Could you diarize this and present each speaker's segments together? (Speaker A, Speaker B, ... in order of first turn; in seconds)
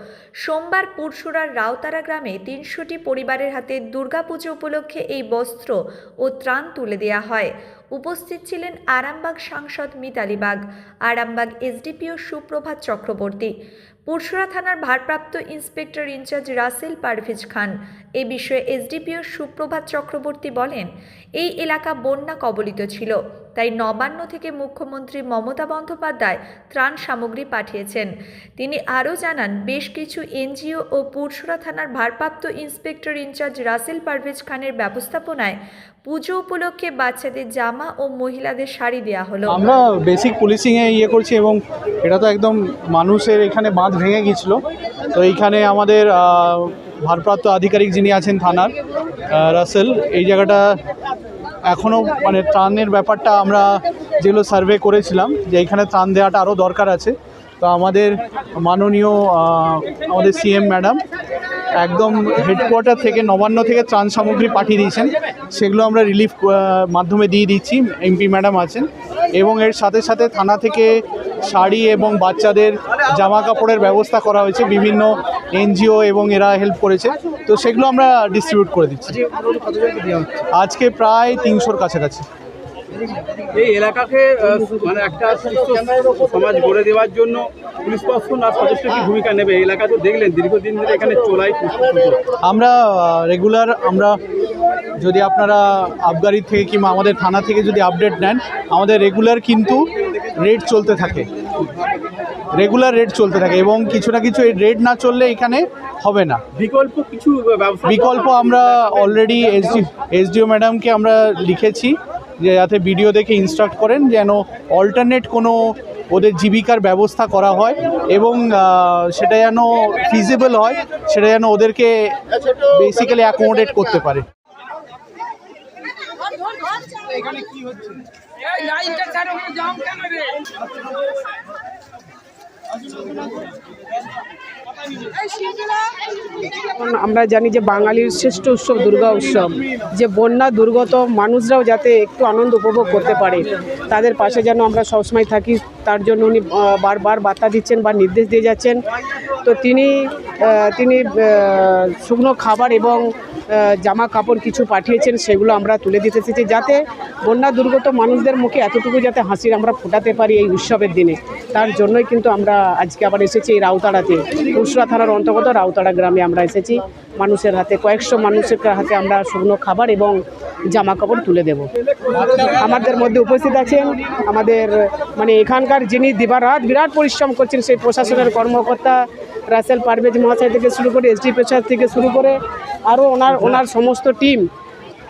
Speaker A: 0.4-13.5, 14.1-39.6
Speaker B: 39.5-44.6, 45.1-48.7, 49.3-50.8, 51.7-61.0, 61.8-79.2, 80.5-82.2, 92.4-94.2, 95.0-101.3, 102.5-106.4, 107.8-124.3
Speaker C: 79.8-80.3, 83.5-92.2, 106.5-108.3
Speaker D: 136.7-148.8, 149.4-184.5